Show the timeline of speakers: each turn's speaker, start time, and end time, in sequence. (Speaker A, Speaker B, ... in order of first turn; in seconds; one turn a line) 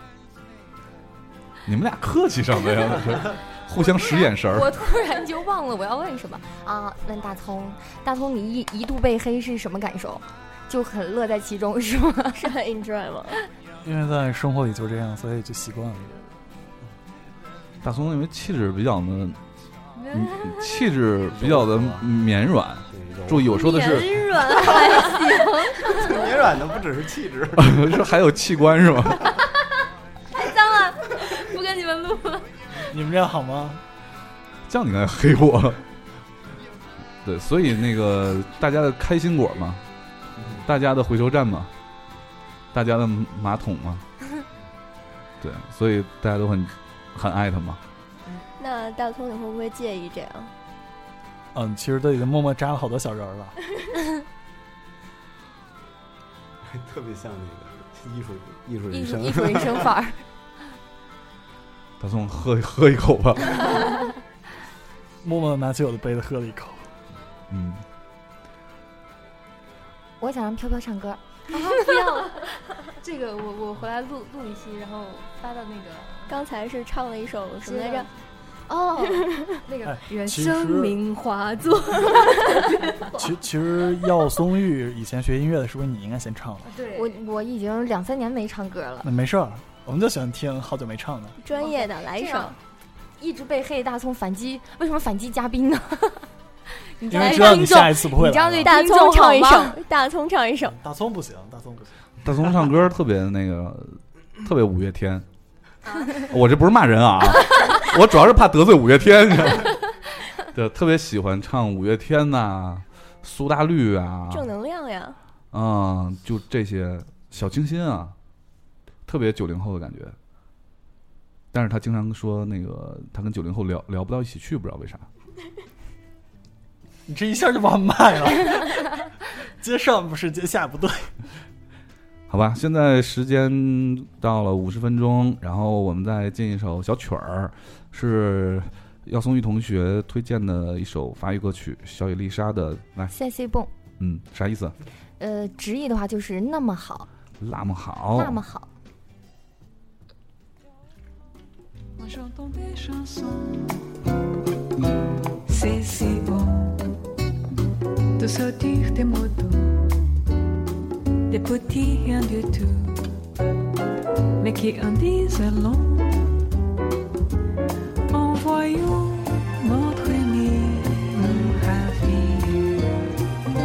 Speaker A: 1.7-4.7
Speaker B: 3.8-12.5
Speaker C: 12.3-13.4
Speaker D: 13.8-16.3
Speaker A: 17.8-19.4
Speaker E: 20.0-20.7
Speaker A: 20.1-24.2
Speaker F: 21.3-22.1
Speaker F: 22.9-23.6
Speaker C: 23.6-25.0
Speaker E: 23.7-26.2
Speaker F: 24.4-25.1
Speaker F: 25.9-28.0
Speaker A: 27.6-29.4
Speaker E: 30.4-32.5
Speaker D: 32.7-33.8
Speaker A: 34.7-35.8
Speaker A: 37.2-39.8
Speaker F: 40.4-40.7
Speaker A: 40.7-41.7
Speaker A: 42.7-44.0
Speaker A: 45.4-47.8
Speaker C: 48.6-50.5
Speaker D: 51.5-53.5
Speaker F: 56.7-59.9
Speaker B: 58.9-60.2
Speaker A: 62.0-63.9
Speaker D: 65.2-66.9
Speaker A: 67.5-67.8
Speaker B: 70.2-72.2
Speaker E: 71.5-76.3
Speaker C: 76.3-78.1
Speaker E: 77.6-78.1
Speaker E: 78.7-83.2
Speaker B: 78.9-79.3
Speaker C: 79.2-79.5
Speaker D: 79.8-81.0
Speaker D: 83.2-86.7
Speaker E: 86.7-87.1
Speaker B: 86.9-89.1
Speaker D: 89.0-91.4
Speaker C: 91.4-92.5
Speaker B: 91.5-92.6
Speaker B: 93.2-99.8
Speaker D: 97.1-98.8
Speaker C: 97.1-97.8
Speaker C: 98.6-100.8
Speaker D: 100.6-102.8
Speaker A: 102.2-105.2
Speaker A: 106.1-114.5
Speaker C: 114.3-115.2
Speaker A: 115.5-118.2
Speaker A: 119.1-120.2
Speaker A: 121.5-125.1
Speaker D: 127.1-131.2
Speaker A: 132.3-143.1
Speaker B: 143.1-143.7
Speaker A: 144.0-144.8
Speaker B: 145.2-147.1
Speaker A: 147.4-148.4
Speaker B: 148.2-148.7
Speaker G: 152.0-153.9
Speaker G: 155.5-156.9
Speaker G: 158.2-160.0
Speaker G: 161.3-163.1
Speaker G: 164.4-166.5
Speaker G: 168.1-173.1